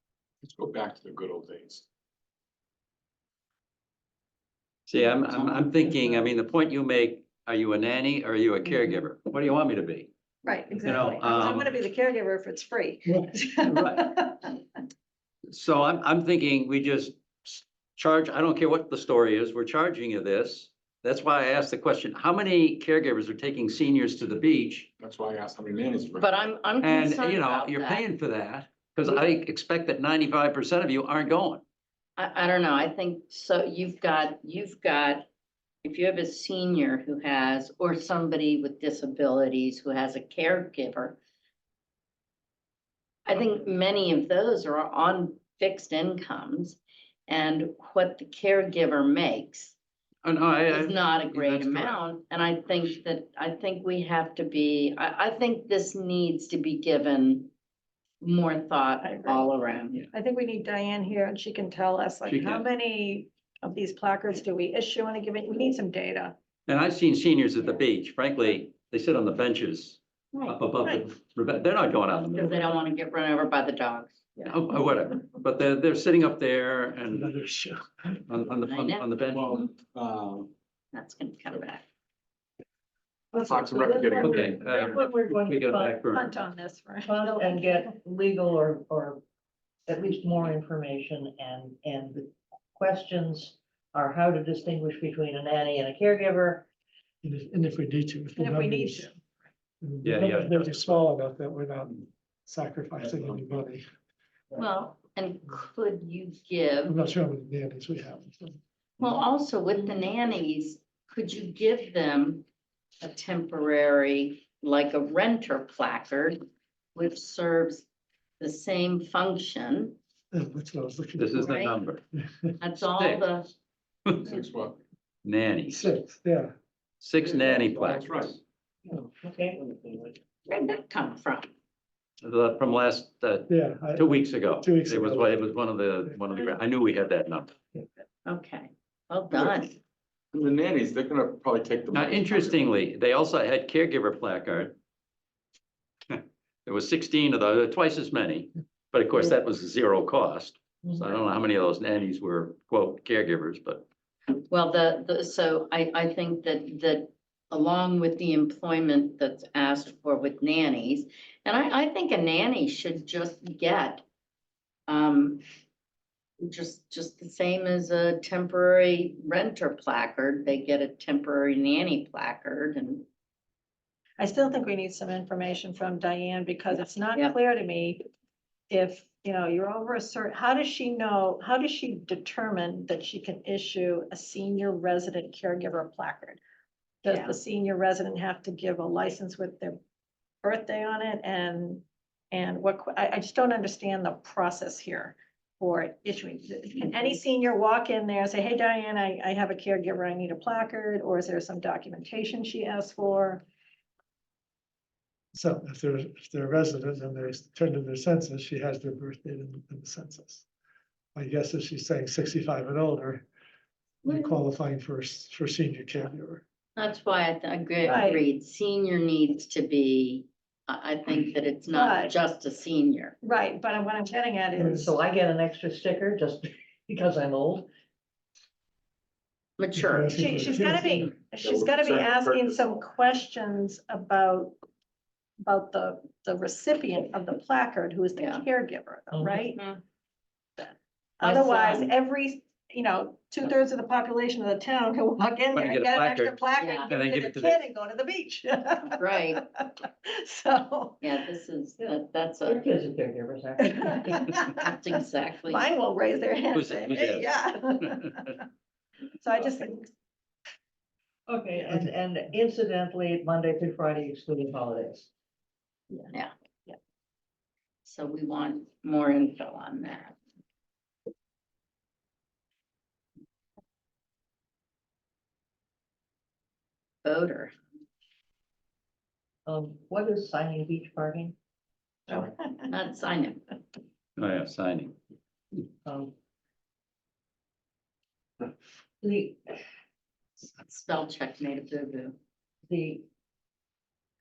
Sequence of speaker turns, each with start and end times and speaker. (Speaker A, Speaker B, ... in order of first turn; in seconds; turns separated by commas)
Speaker A: 0.4-1.8, Speaker B: 4.9-10.1, Speaker C: 10.4-14.5, Speaker B: 10.8-11.8, Speaker D: 13.1-13.3, Speaker B: 13.6-14.2, Speaker B: 15.5-24.9, Speaker A: 25.0-26.4, Speaker E: 26.2-28.0, Speaker B: 26.8-31.6, Speaker E: 32.2-35.3, Speaker E: 35.8-41.2, Speaker E: 43.3-49.7, Speaker B: 50.2-52.0, Speaker E: 50.7-57.5, Speaker E: 58.2-60.0, Speaker C: 59.0-59.5, Speaker C: 60.1-66.3, Speaker B: 62.2-62.6, Speaker B: 66.7-72.6, Speaker E: 72.3-74.5, Speaker B: 74.4-77.3, Speaker D: 77.1-78.2, Speaker B: 78.3-79.5, Speaker E: 78.6-79.7, Speaker A: 79.2-80.5, Speaker E: 80.9-81.8, Speaker F: 83.3-86.0, Speaker A: 83.3-84.8, Speaker B: 84.2-86.3, Speaker C: 86.1-87.7, Speaker F: 87.0-89.2, Speaker F: 89.9-96.7, Speaker D: 97.2-99.1, Speaker C: 98.4-99.2, Speaker D: 99.8-103.8, Speaker B: 100.0-101.0, Speaker E: 104.5-107.0, Speaker D: 106.9-108.5, Speaker E: 109.0-112.4, Speaker E: 113.0-116.4, Speaker E: 117.0-117.8, Speaker E: 118.4-120.0, Speaker D: 120.3-121.5, Speaker B: 121.2-122.0, Speaker E: 121.4-121.8, Speaker E: 122.6-123.5, Speaker B: 122.8-123.3, Speaker A: 124.2-124.8, Speaker B: 125.2-125.8, Speaker D: 125.7-126.5, Speaker B: 127.0-128.4, Speaker A: 127.3-128.4, Speaker F: 128.8-129.6, Speaker E: 130.5-131.5, Speaker B: 132.2-137.5, Speaker D: 133.5-135.5, Speaker E: 138.2-139.8, Speaker A: 139.3-139.7, Speaker A: 140.3-142.6, Speaker B: 141.9-144.8, Speaker B: 146.1-153.8, Speaker E: 154.5-164.0, Speaker E: 164.9-165.4, Speaker E: 166.4-173.0, Speaker C: 174.2-178.0, Speaker C: 178.7-186.4, Speaker C: 187.0-189.8, Speaker E: 187.1-187.3, Speaker C: 190.4-203.4, Speaker D: 205.3-210.4, Speaker D: 211.1-213.2, Speaker D: 214.0-216.4, Speaker E: 214.1-214.4, Speaker E: 216.8-223.2, Speaker C: 217.8-218.2, Speaker C: 221.7-222.1, Speaker C: 223.2-224.9, Speaker F: 224.6-227.7, Speaker E: 229.6-230.5, Speaker D: 229.8-231.1, Speaker C: 230.1-234.6, Speaker A: 231.4-232.8, Speaker C: 235.4-239.7, Speaker E: 238.2-238.4, Speaker F: 239.1-239.5, Speaker E: 239.6-239.8, Speaker C: 240.6-251.0, Speaker E: 241.2-241.9, Speaker B: 245.5-247.7, Speaker E: 246.6-246.9, Speaker E: 248.9-249.4, Speaker E: 251.0-252.6, Speaker F: 252.4-254.2, Speaker C: 253.7-254.6, Speaker E: 254.4-255.7, Speaker C: 255.5-258.4, Speaker B: 256.5-258.4, Speaker C: 259.2-259.9, Speaker F: 261.3-265.1, Speaker E: 267.8-270.1, Speaker E: 277.0-277.5, Speaker F: 279.4-281.3, Speaker E: 282.7-283.4, Speaker B: 284.2-284.9, Speaker F: 285.9-286.1, Speaker F: 289.0-289.5, Speaker E: 290.6-292.2, Speaker F: 292.7-293.0